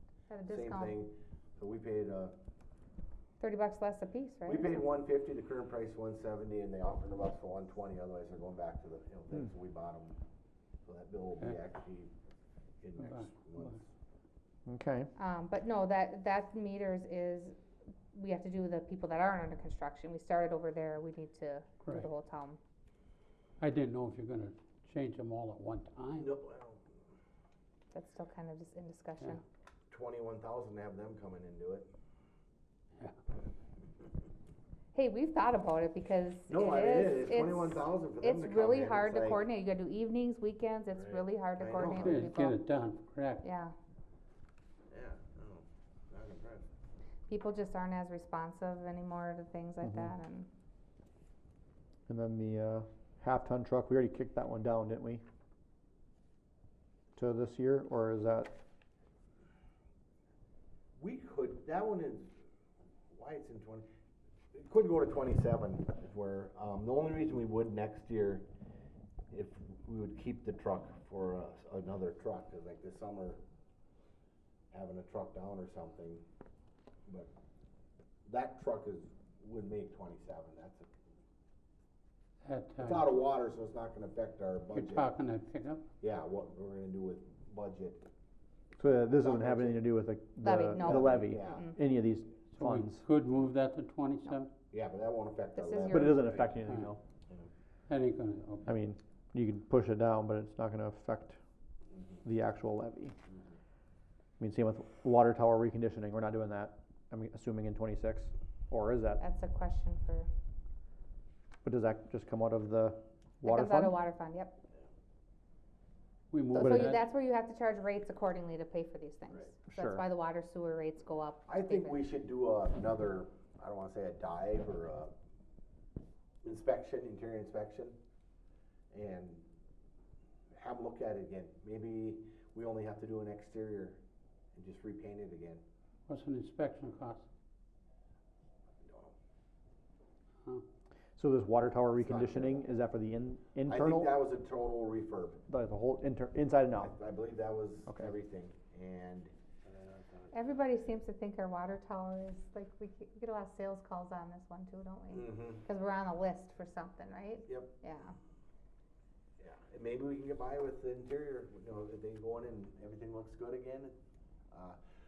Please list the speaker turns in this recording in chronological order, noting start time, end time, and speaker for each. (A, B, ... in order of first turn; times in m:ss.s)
0:00.3-0:01.0 A
0:00.5-0:02.4 B
0:03.4-0:04.8 A
0:04.5-0:10.2 B
0:10.8-0:12.1 B
0:12.8-0:13.9 B
0:13.0-0:13.7 C
0:14.7-0:15.1 D
0:15.2-0:17.6 A
0:18.1-0:22.6 A
0:23.6-0:26.3 C
0:26.2-0:26.9 B
0:27.9-0:29.4 A
0:29.9-0:31.9 B
0:34.9-0:42.6 A
0:36.5-0:39.4 B
0:41.0-0:42.2 B
0:41.8-0:43.4 C
0:43.4-0:43.7 A
0:44.9-0:46.7 B
0:47.3-0:50.5 A
0:49.8-0:50.2 D
0:52.1-0:55.2 D
0:57.2-0:58.6 D
1:01.0-1:02.3 B
1:03.1-1:03.9 B
1:04.5-1:08.5 B
1:09.3-1:13.4 B
1:14.7-1:16.2 B
1:18.3-1:20.9 B
1:22.4-1:23.1 C
1:22.8-1:25.1 B
1:24.7-1:25.8 C
1:26.0-1:28.1 B
1:28.8-1:33.1 D
1:29.1-1:29.8 B
1:30.4-1:31.8 A
1:30.8-1:31.8 B
1:32.5-1:34.5 C
1:34.7-1:36.6 B
1:35.6-1:36.4 A
1:35.9-1:37.0 D
1:36.7-1:36.9 C
1:37.9-1:38.7 C
1:38.7-1:41.4 D
1:42.2-1:43.2 D
1:44.4-1:49.2 D
1:49.2-1:50.3 A
1:51.6-1:54.0 D
1:53.4-1:54.6 A
1:56.3-1:57.0 C
1:56.5-2:02.1 A
1:56.6-1:57.0 D
1:59.7-2:00.0 D
2:01.5-2:05.1 B
2:06.4-2:08.0 B
2:08.9-2:09.5 B
2:10.5-2:14.0 B
2:14.6-2:15.6 B
2:16.1-2:17.3 C
2:18.8-2:19.1 B
2:21.2-2:24.1 D
2:22.0-2:22.7 B
2:23.7-2:25.4 B
2:25.5-2:27.0 D
2:26.8-2:30.2 B
2:30.3-2:38.2 A
2:35.1-2:35.6 B
2:37.5-2:37.7 B
2:39.4-2:44.0 B
2:44.5-2:44.8 B